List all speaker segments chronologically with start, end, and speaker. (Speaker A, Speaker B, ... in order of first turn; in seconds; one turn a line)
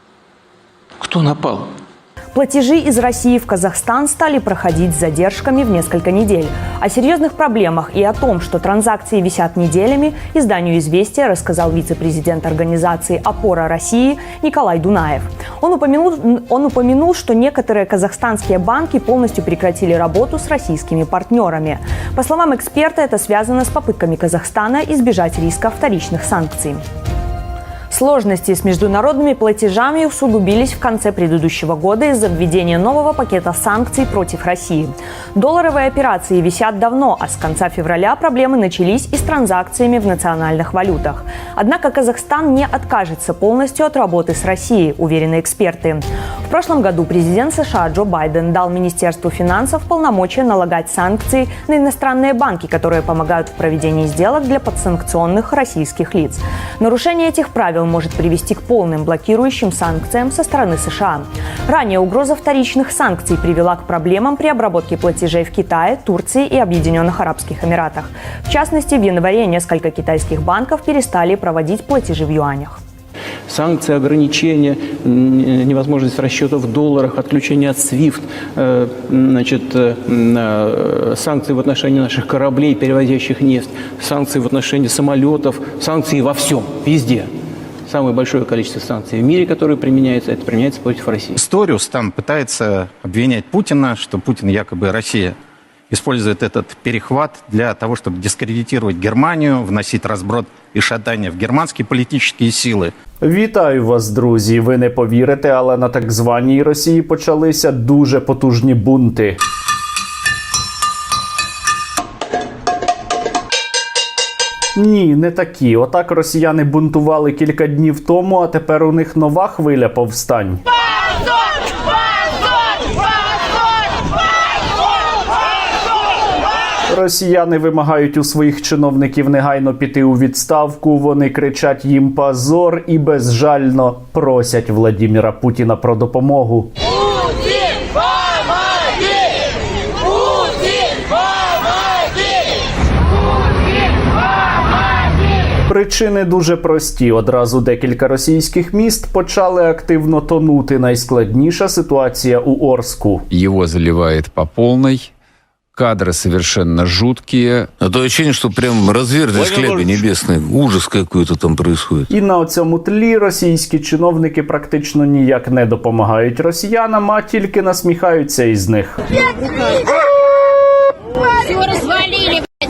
Speaker A: 1.0-1.7
Speaker B: 2.3-26.8
Speaker B: 27.9-72.8
Speaker A: 73.5-87.3
Speaker A: 87.9-91.4
Speaker C: 91.4-95.4
Speaker C: 95.9-102.9
Speaker D: 103.2-109.4
Speaker D: 114.8-120.6
Speaker D: 126.9-136.7
Speaker D: 145.7-153.2
Speaker E: 153.3-155.1
Speaker E: 155.8-157.7
Speaker F: 157.8-162.1
Speaker D: 162.1-169.0